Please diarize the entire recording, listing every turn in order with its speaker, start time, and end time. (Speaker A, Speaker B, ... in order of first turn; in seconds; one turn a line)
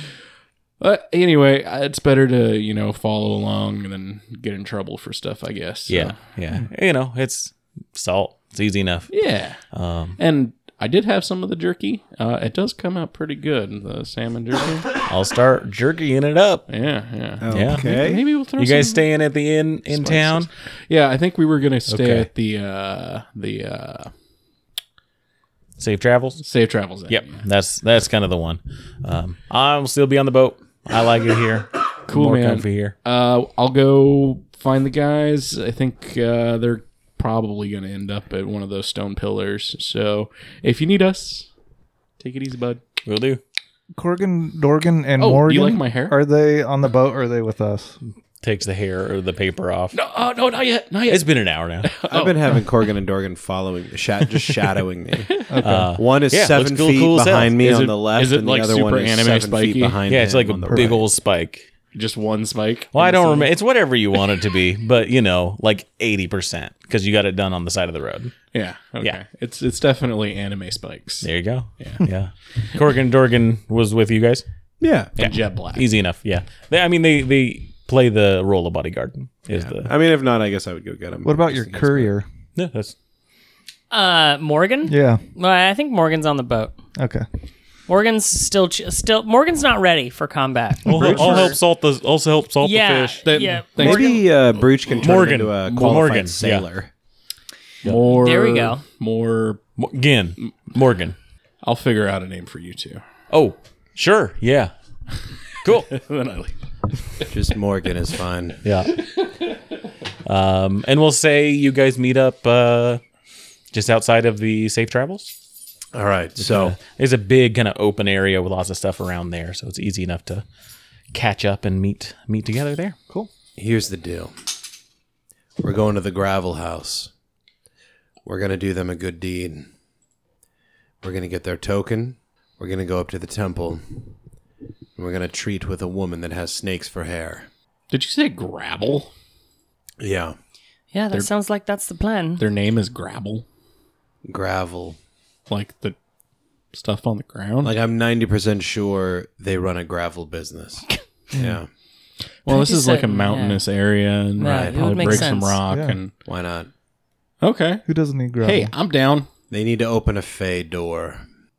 Speaker A: 0.8-6.2
Speaker B: 5.9-9.1
Speaker A: 9.1-9.6
Speaker B: 9.7-10.2
Speaker A: 10.2-14.9
Speaker B: 15.0-16.7
Speaker A: 16.7-19.1
Speaker C: 17.4-18.2
Speaker B: 17.5-18.0
Speaker B: 18.6-20.5
Speaker A: 19.9-24.1
Speaker B: 21.9-22.3
Speaker B: 25.8-26.4
Speaker A: 26.4-27.4
Speaker B: 27.1-32.9
Speaker A: 32.1-41.5
Speaker A: 42.2-42.8
Speaker B: 43.0-43.4
Speaker D: 44.0-48.0
Speaker A: 45.2-46.2
Speaker B: 48.4-50.0
Speaker A: 49.9-51.3
Speaker B: 51.1-51.9
Speaker A: 51.8-52.6
Speaker C: 52.1-61.0
Speaker D: 55.5-55.9
Speaker B: 55.6-58.0
Speaker A: 58.1-60.0
Speaker B: 60.1-61.7
Speaker A: 61.9-63.5
Speaker B: 62.9-68.3
Speaker A: 68.5-72.1
Speaker B: 71.2-74.4
Speaker C: 74.8-75.1
Speaker A: 75.2-75.8
Speaker B: 75.2-79.9
Speaker C: 79.5-82.1
Speaker D: 81.2-82.2
Speaker B: 82.5-82.9
Speaker E: 83.9-86.7
Speaker D: 84.9-85.2
Speaker D: 87.0-87.2
Speaker E: 87.9-91.6
Speaker B: 90.8-93.2
Speaker A: 91.0-91.3
Speaker E: 92.6-94.3
Speaker A: 93.2-95.4
Speaker C: 93.7-96.9
Speaker B: 95.0-96.7
Speaker A: 97.8-99.6
Speaker E: 98.1-98.8
Speaker B: 99.8-101.2
Speaker A: 101.6-103.0
Speaker B: 103.3-104.7
Speaker B: 105.6-105.9
Speaker A: 105.9-106.5
Speaker C: 107.3-108.6
Speaker B: 108.6-108.9
Speaker B: 110.2-113.0
Speaker B: 113.7-115.3
Speaker C: 115.9-116.7
Speaker B: 116.4-120.4
Speaker B: 121.1-123.0
Speaker C: 123.6-124.3
Speaker C: 125.6-127.1
Speaker C: 128.2-129.7
Speaker C: 131.0-134.0
Speaker C: 135.0-137.5
Speaker A: 137.9-139.1
Speaker C: 140.0-140.3
Speaker E: 140.9-142.4
Speaker A: 142.4-143.4
Speaker C: 144.2-145.0
Speaker A: 145.5-145.9
Speaker A: 146.7-147.7
Speaker C: 147.6-151.7
Speaker D: 151.3-151.6
Speaker A: 152.4-156.1
Speaker E: 152.5-153.6
Speaker E: 154.4-155.6
Speaker C: 154.4-155.3
Speaker D: 155.7-156.0
Speaker C: 156.2-156.7
Speaker A: 157.4-157.8
Speaker D: 157.8-158.7
Speaker A: 158.4-159.3
Speaker C: 159.5-161.2